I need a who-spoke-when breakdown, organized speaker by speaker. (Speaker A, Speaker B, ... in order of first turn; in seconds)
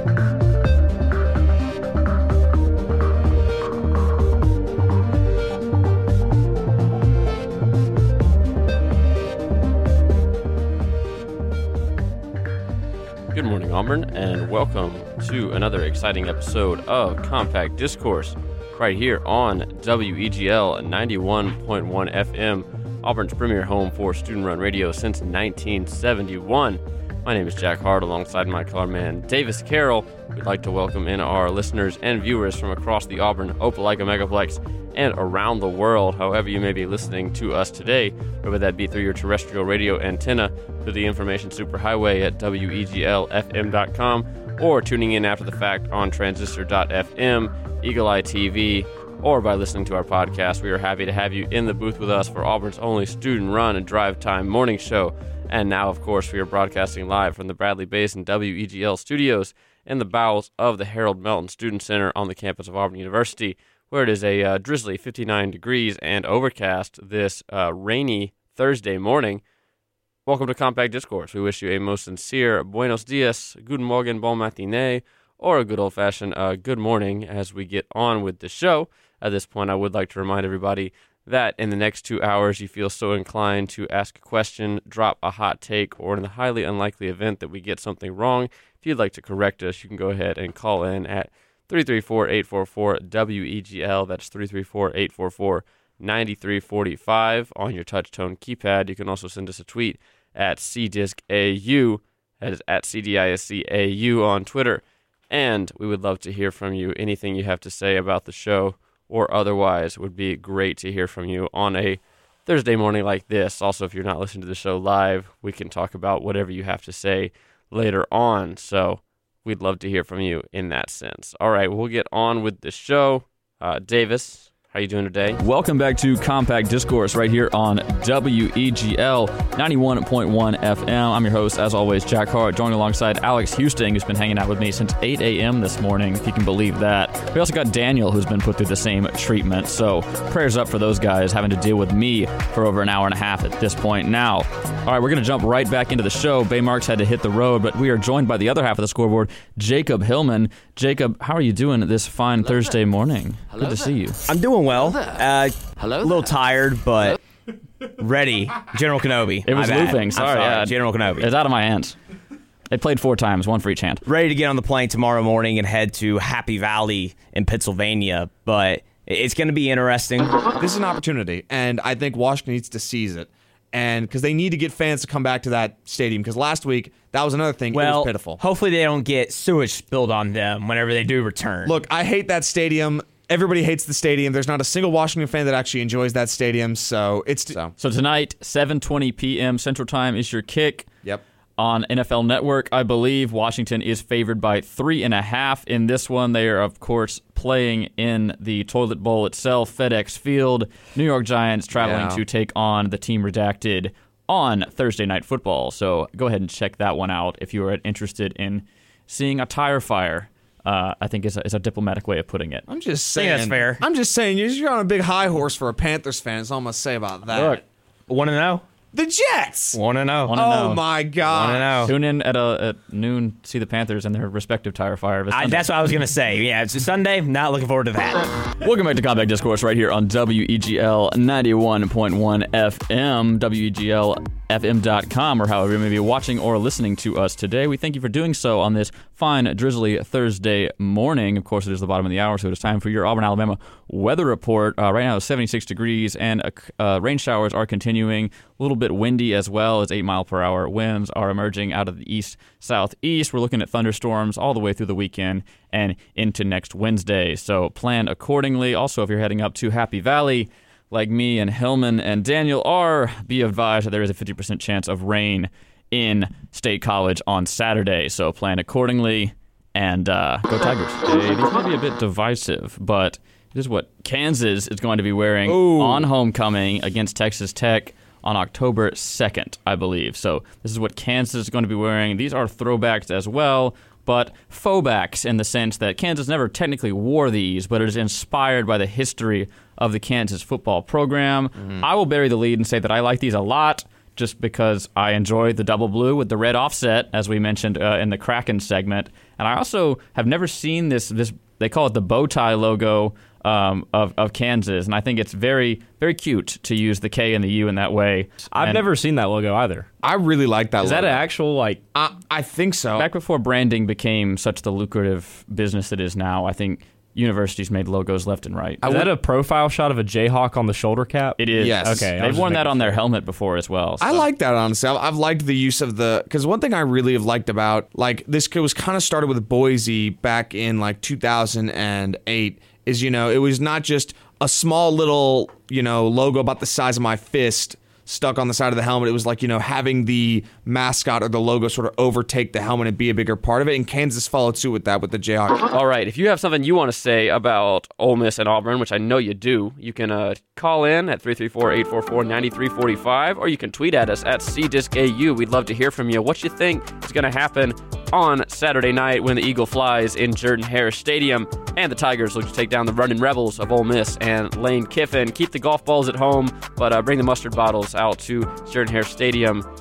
Speaker A: 13.3-69.4, 70.2-125.4, 346.3-357.6, 358.1-359.6, 360.2-360.5, 362.8-369.6
Speaker B: 125.4-154.2, 159.4-161.9, 162.7-164.0, 187.8-190.9, 191.6-212.6, 217.3-217.6, 220.3-220.8, 221.8-225.7, 228.6-308.8, 312.9-319.1, 321.4-324.2, 345.7-347.9, 350.4-355.0, 356.7-357.7, 359.5-365.0, 368.5-368.7
Speaker C: 154.3-157.2, 158.0-161.3, 164.1-170.4, 177.7-181.8, 213.1-213.8, 218.1-218.6, 219.7-220.3, 221.2-221.9, 225.3-228.2
Speaker D: 170.6-178.4, 181.6-187.7, 201.8-202.2, 212.7-217.6, 218.9-219.8, 220.3-221.9, 275.5-276.1, 310.0-311.2, 311.9-313.1, 321.5-322.1, 324.0-345.7
Speaker E: 308.5-309.9, 310.8-311.8, 318.8-323.0